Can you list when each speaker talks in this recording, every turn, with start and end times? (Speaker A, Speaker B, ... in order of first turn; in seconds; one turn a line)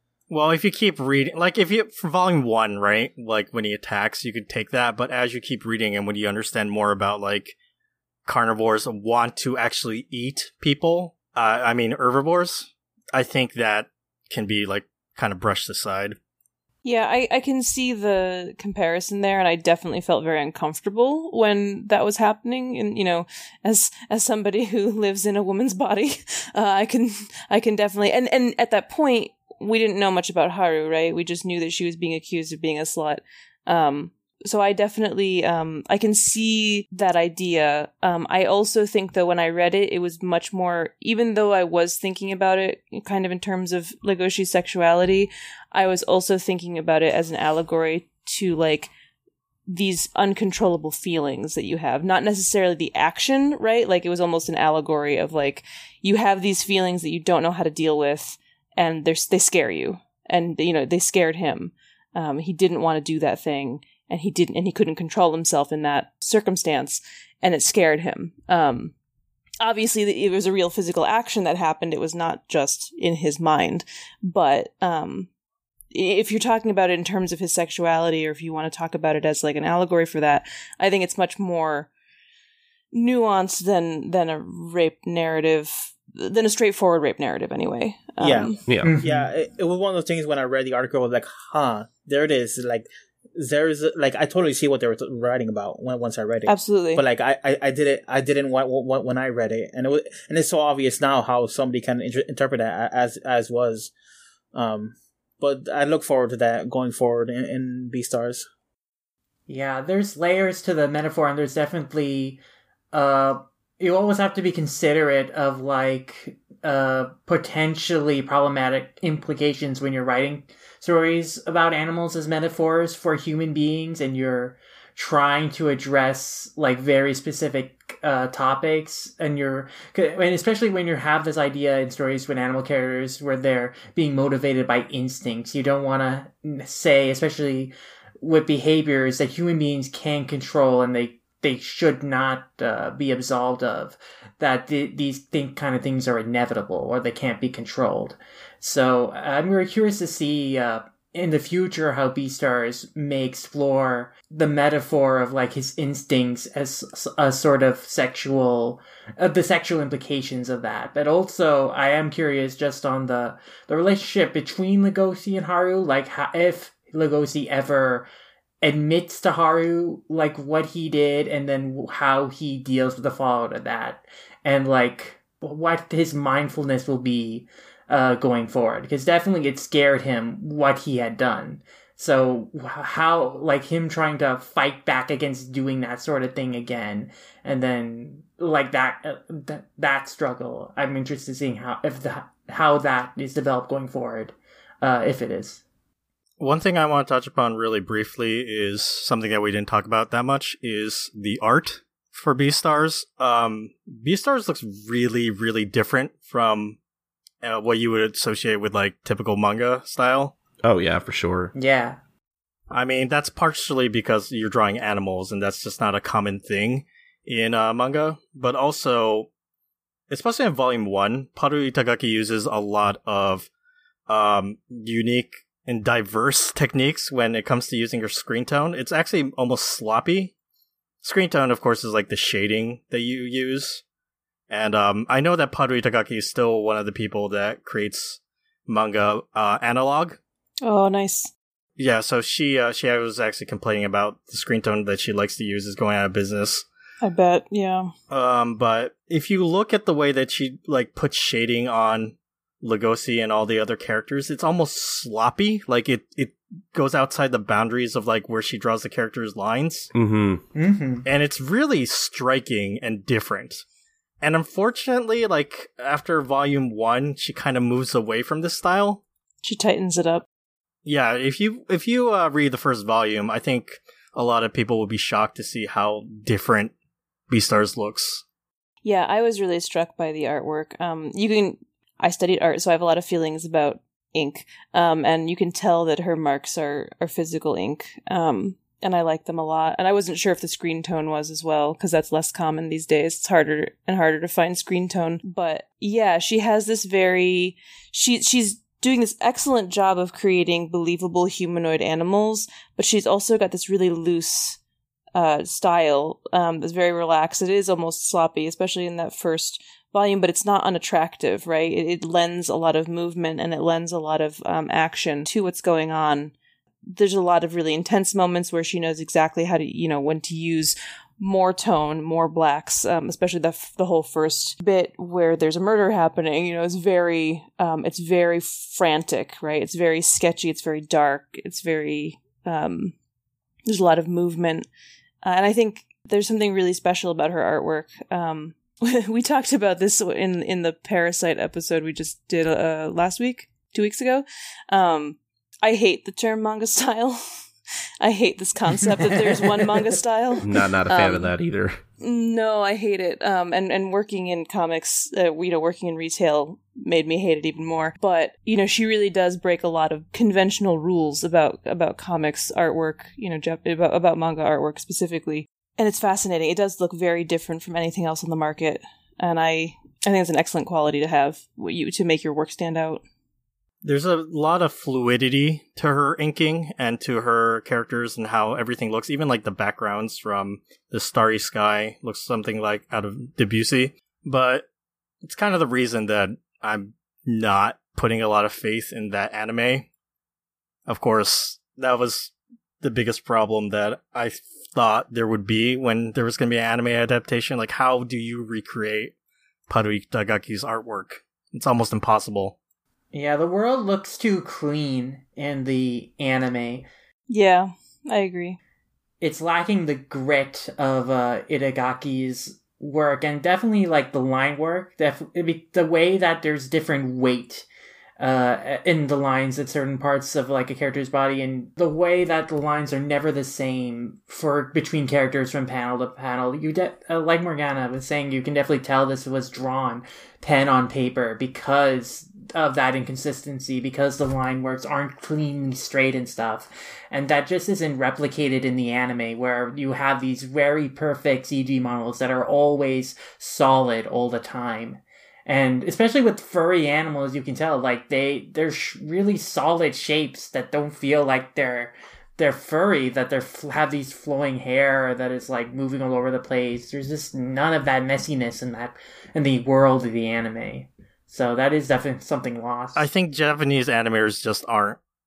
Speaker A: 0.3-7.5
Speaker A: 8.2-16.2
Speaker B: 16.8-48.9
Speaker B: 49.7-68.9
Speaker B: 69.6-75.3
Speaker B: 75.9-81.9
Speaker B: 82.9-88.6
Speaker C: 88.2-103.9
Speaker D: 88.7-88.9
Speaker E: 88.8-89.2
Speaker B: 96.5-97.0
Speaker C: 104.5-108.5
Speaker E: 109.5-112.4
Speaker E: 112.9-168.1
Speaker E: 168.6-195.6
Speaker A: 196.4-206.8
Speaker A: 207.4-210.3
Speaker D: 210.6-211.5
Speaker E: 211.5-212.0
Speaker A: 212.7-219.3
Speaker A: 220.1-223.5
Speaker A: 224.1-230.3
Speaker A: 231.0-233.8
Speaker A: 234.5-240.2
Speaker B: 240.6-241.3
Speaker A: 241.8-246.7
Speaker B: 247.0-247.9
Speaker A: 248.1-259.9
Speaker D: 259.9-260.4
Speaker E: 260.5-261.0
Speaker A: 261.1-263.6
Speaker A: 264.2-269.0
Speaker B: 269.4-270.2
Speaker A: 270.8-276.7
Speaker A: 277.3-278.2
Speaker B: 278.8-304.6
Speaker B: 305.1-316.3
Speaker B: 316.9-332.9
Speaker B: 333.7-334.7
Speaker B: 335.2-347.2
Speaker B: 348.0-351.3
Speaker D: 350.4-351.8
Speaker B: 352.0-373.0
Speaker A: 373.8-384.7
Speaker A: 385.2-389.9
Speaker A: 390.9-399.1
Speaker A: 399.7-402.6
Speaker E: 403.1-406.9
Speaker B: 407.3-408.6
Speaker E: 409.2-417.6
Speaker E: 418.2-463.1
Speaker A: 462.9-465.0